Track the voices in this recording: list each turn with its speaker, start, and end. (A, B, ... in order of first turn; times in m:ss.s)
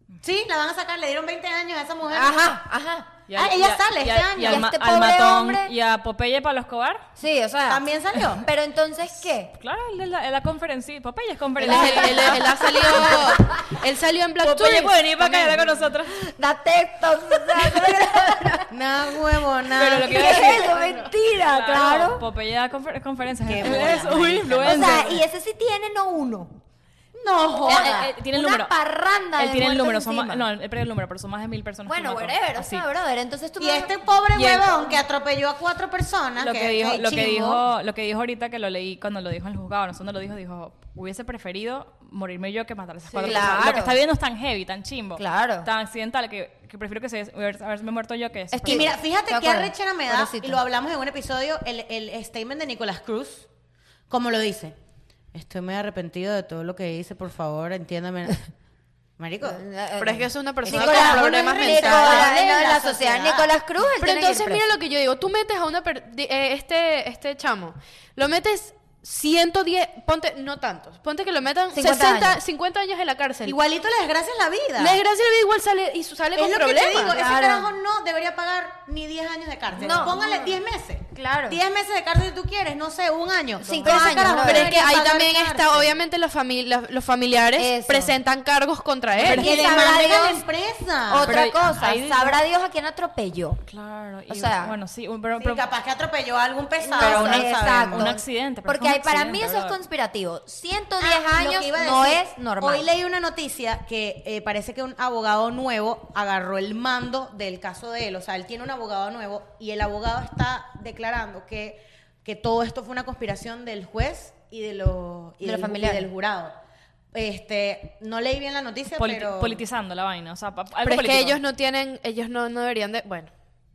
0:00.2-0:02.6 A
0:02.1-0:03.2 B
0:03.3-0:07.0 C
0:03.3-0:04.7 A
0:04.4-0:05.7 B
0:07.2-0:09.5 B
0:07.7-0:08.5 A
0:09.5-0:13.3 C
0:11.6-0:13.8 B
0:11.6-0:15.7 D
0:14.4-0:16.2 C
0:16.0-0:18.7 B
0:18.7-0:20.8 A
0:19.7-0:25.2 C
0:19.8-0:22.2 B
0:23.5-0:25.2 A
0:24.6-0:26.6 B
0:27.2-0:28.1 A
0:27.6-0:28.7 C
0:27.6-0:30.4 B
0:29.4-0:32.9 C
0:31.9-0:34.0 B
0:33.6-0:37.6 A
0:34.3-0:35.0 C
0:36.4-0:48.9 C
0:43.2-0:44.0 B
0:45.2-0:45.7 B
0:48.5-0:50.6 B
0:48.7-0:53.5 A
0:54.1-0:54.8 A
0:55.3-0:58.5 A
0:59.2-0:59.6 A
0:59.4-1:04.6 B
1:00.0-1:02.3 D
1:00.6-1:03.5 A
1:04.0-1:13.6 D
1:11.7-1:12.4 B
1:13.4-1:15.0 A
1:14.8-1:17.2 D
1:16.4-1:26.0 A
1:16.9-1:17.7 B
1:19.7-1:20.6 B
1:21.1-1:21.6 B
1:23.6-1:24.8 B
1:23.8-1:29.5 D
1:27.6-1:28.2 B
1:29.2-1:29.6 C
1:29.2-1:31.4 A
1:29.2-1:30.4 B
1:31.1-1:33.6 B
1:31.2-1:32.4 C
1:33.7-1:35.7 C
1:34.3-1:34.8 B
1:35.4-1:38.2 A
1:36.8-1:42.9 B
1:37.0-1:39.8 C
1:41.0-1:56.5 A
1:55.4-1:56.1 B
1:57.1-1:59.6 A
1:59.0-2:01.4 C
2:00.8-2:03.3 D